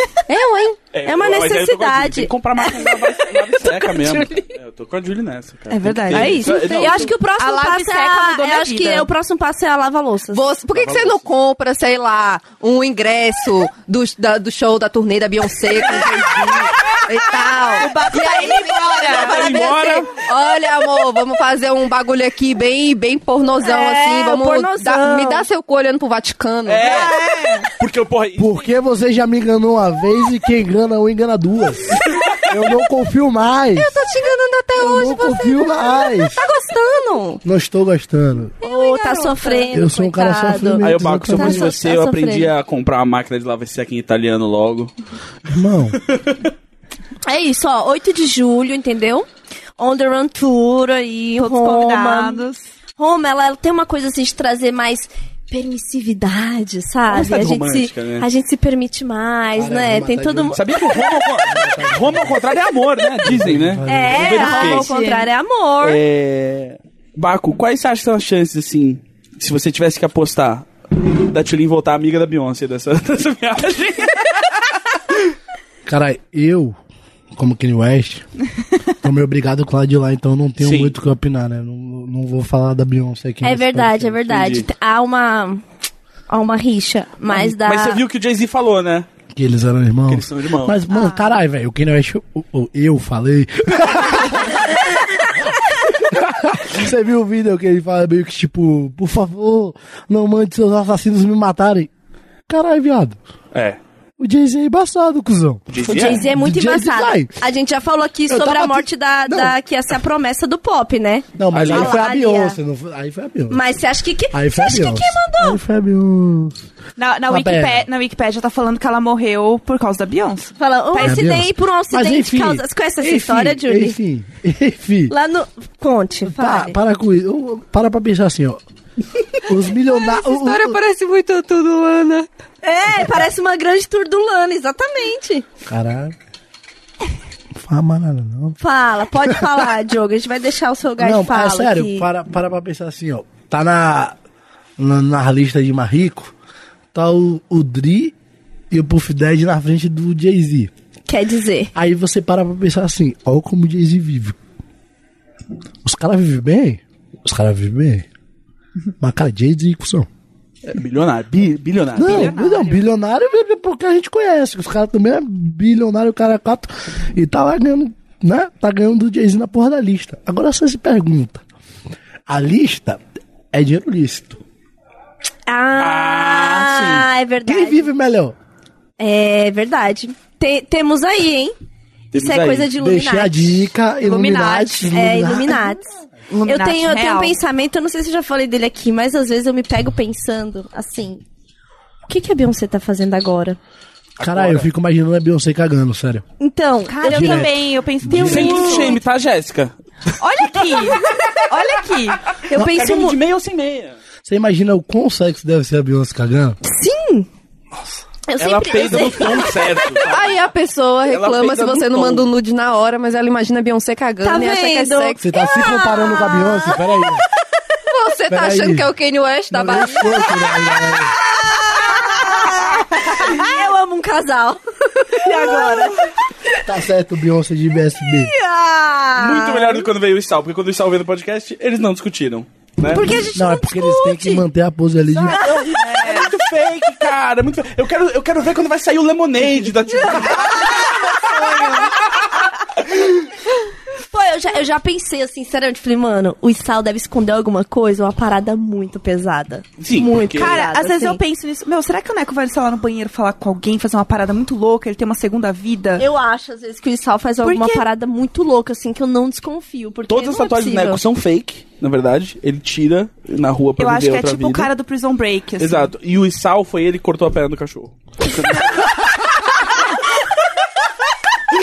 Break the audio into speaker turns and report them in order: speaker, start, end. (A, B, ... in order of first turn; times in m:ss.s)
0:00.3-0:00.8 A
0:00.9-0:07.1 B
0:01.0-0:02.9 C
0:03.6-0:04.4 C
0:05.7-0:09.1 D
0:06.1-0:10.4 C
0:10.3-0:26.9 A
0:10.7-0:11.2 B
0:17.8-0:19.6 D
0:18.1-0:18.4 C
0:19.1-0:20.1 B
0:19.4-0:19.9 C
0:23.6-0:25.4 C
0:26.6-0:27.2 B
0:26.8-0:27.7 D
0:27.8-0:28.7 B
0:28.4-0:33.9 E
0:33.8-0:37.4 C
0:34.8-0:36.4 E
0:37.4-0:38.6 E
0:38.6-0:42.5 C
0:38.6-0:39.7 D
0:39.7-0:41.7 E
0:40.8-0:44.9 B
0:45.5-0:46.0 E
0:46.1-0:46.4 B
0:47.2-0:49.3 C
0:49.8-0:52.4 C
0:51.4-0:52.7 D
0:53.0-1:00.6 C
0:57.1-0:58.3 B
0:59.5-1:00.7 E
1:00.5-1:04.9 B
1:01.3-1:02.4 E
1:03.2-1:04.3 E
1:03.9-1:06.0 C
1:04.2-1:05.3 D
1:05.8-1:14.3 B
1:15.8-1:16.8 E
1:17.3-1:18.2 E
1:19.0-1:24.3 E
1:20.6-1:20.9 B
1:23.4-1:25.6 C
1:24.3-1:24.7 B
1:26.3-1:28.0 C
1:27.3-1:29.1 B
1:29.3-1:34.7 E
1:30.1-1:30.8 B
1:30.9-1:31.2 D
1:35.9-1:41.9 E
1:42.5-1:43.2 E
1:43.5-1:43.8 B
1:44.2-1:47.3 E
1:45.7-1:46.2 B
1:45.8-1:52.6 C
1:48.3-1:49.5 E
1:51.4-1:53.6 E
1:51.5-1:52.0 B
1:53.5-1:55.6 C
1:54.3-1:56.6 E
1:57.0-2:01.2 D
1:57.3-1:57.9 E
2:00.6-2:04.0 C
2:01.0-2:05.1 E
2:05.1-2:06.8 C
2:06.2-2:08.6 E
2:09.4-2:10.8 E
2:10.1-2:12.3 A
2:12.6-2:15.4 C
2:15.6-2:16.2 E
2:17.6-2:18.6 E
2:18.6-2:22.0 C
2:19.2-2:19.7 E
2:21.0-2:24.2 E
2:24.8-2:26.3 E
2:26.9-2:28.1 E
2:28.7-2:30.7 E
2:31.1-2:31.7 C
2:31.7-2:34.4 E
2:35.8-2:38.1 E
2:39.0-2:40.1 E
2:40.7-2:42.4 B
2:42.0-2:51.4 E
2:42.0-2:42.8 D
2:52.3-2:53.0 E
2:53.5-2:54.4 E
2:55.5-2:57.8 C
2:55.8-2:57.1 B
2:57.4-2:58.4 E
2:59.0-3:01.5 C
3:02.1-3:03.6 C
3:02.1-3:02.7 B
3:02.8-3:05.8 E
3:04.0-3:05.0 D
3:04.9-3:05.9 C
3:06.3-3:07.3 D
3:06.4-3:11.2 C
3:12.1-3:13.6 C
3:14.2-3:16.2 E
3:14.2-3:14.7 B
3:16.4-3:17.5 C
3:16.9-3:19.0 D
3:17.0-3:18.9 E
3:18.0-3:19.7 B
3:20.2-3:22.4 D
3:20.6-3:20.9 B
3:22.4-3:24.0 B
3:22.5-3:23.2 C
3:24.2-3:26.6 E
3:26.6-3:27.3 C
3:28.3-3:30.0 C
3:28.4-3:30.4 B
3:30.1-3:35.2 A
3:31.1-3:32.3 B
3:34.2-3:36.8 C
3:35.2-3:37.2 E
3:37.9-3:40.3 A
3:38.3-3:38.9 E
3:39.5-3:41.2 E
3:41.4-3:46.1 C
3:46.6-3:48.3 E
3:48.2-3:49.9 C
3:49.2-3:53.1 B
3:52.8-3:54.4 C
3:53.3-3:55.4 E
3:55.3-3:55.7 C
3:55.3-3:56.3 D
3:55.4-4:01.0 B
3:59.9-4:01.9 C
4:00.3-4:01.9 D
4:04.1-4:11.2 C
4:09.8-4:10.6 B
4:10.3-4:16.0 D
4:16.0-4:21.0 C
4:17.4-4:17.8 D
4:20.1-4:24.7 B
4:23.8-4:25.9 D
4:25.6-4:28.9 B